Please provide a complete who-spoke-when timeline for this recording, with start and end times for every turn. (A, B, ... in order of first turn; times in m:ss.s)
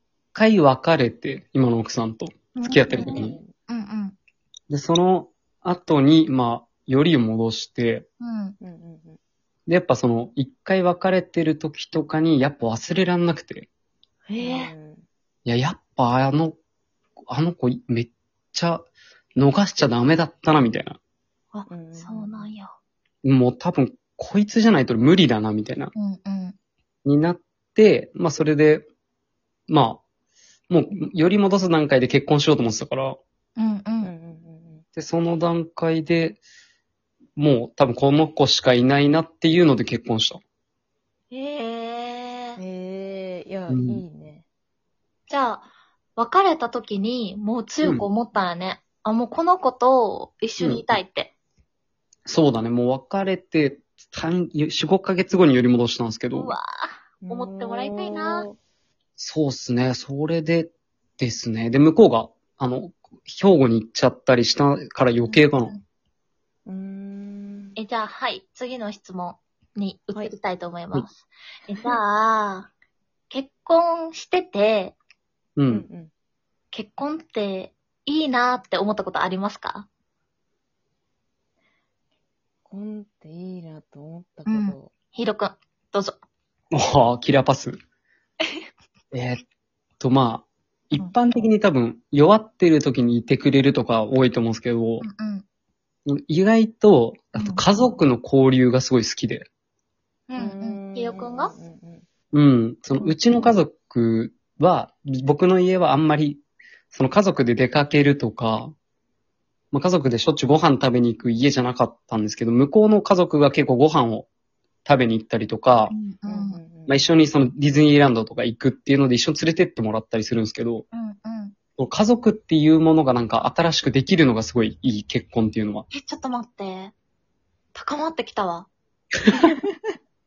0:00.3-0:03.4 A
0:02.6-0:04.2 B
0:02.8-0:03.5 C
0:04.7-0:08.1 A
0:08.2-0:08.6 B
0:08.6-0:09.2 C
0:09.7-0:13.7 A
0:14.3-0:14.7 B
0:14.4-0:15.1 C
0:15.5-0:16.6 A
0:17.3-0:21.0 A
0:21.5-0:22.7 B
0:21.7-0:22.5 C
0:23.2-0:25.9 A
0:26.0-0:26.6 B
0:27.0-0:28.8 A
0:29.7-0:30.0 A
0:30.7-0:33.2 A
0:33.6-0:34.1 B
0:34.0-0:34.8 C
0:35.0-0:36.4 A
0:37.4-0:40.4 A
0:41.3-0:42.6 B
0:42.6-0:44.5 C
0:43.7-0:44.0 A
0:45.3-0:51.3 B
0:52.3-0:56.6 A
0:56.3-0:58.5 B
0:57.2-0:58.6 C
0:59.2-1:05.7 A
1:05.2-1:05.8 B
1:06.7-1:07.8 C
1:07.8-1:12.7 B
1:13.3-1:15.0 B
1:15.6-1:15.8 A
1:15.7-1:16.1 C
1:16.7-1:19.9 B
1:22.6-1:24.9 C
1:24.5-1:26.2 B
1:26.7-1:27.8 A
1:29.1-1:29.4 A
1:30.0-1:35.0 A
1:35.0-1:35.4 B
1:36.0-1:39.5 A
1:37.3-1:37.6 B
1:40.3-1:41.5 B
1:40.4-1:42.0 C
1:42.3-1:46.4 A
1:43.0-1:43.6 C
1:46.9-1:48.7 A
1:49.7-1:54.3 A
1:54.8-1:55.9 A
1:55.9-1:56.6 B
1:56.3-1:57.2 C
1:56.9-2:00.8 A
2:00.9-2:01.6 B
2:01.8-2:05.8 A
2:05.9-2:06.9 B
2:07.7-2:08.7 B
2:09.4-2:10.0 C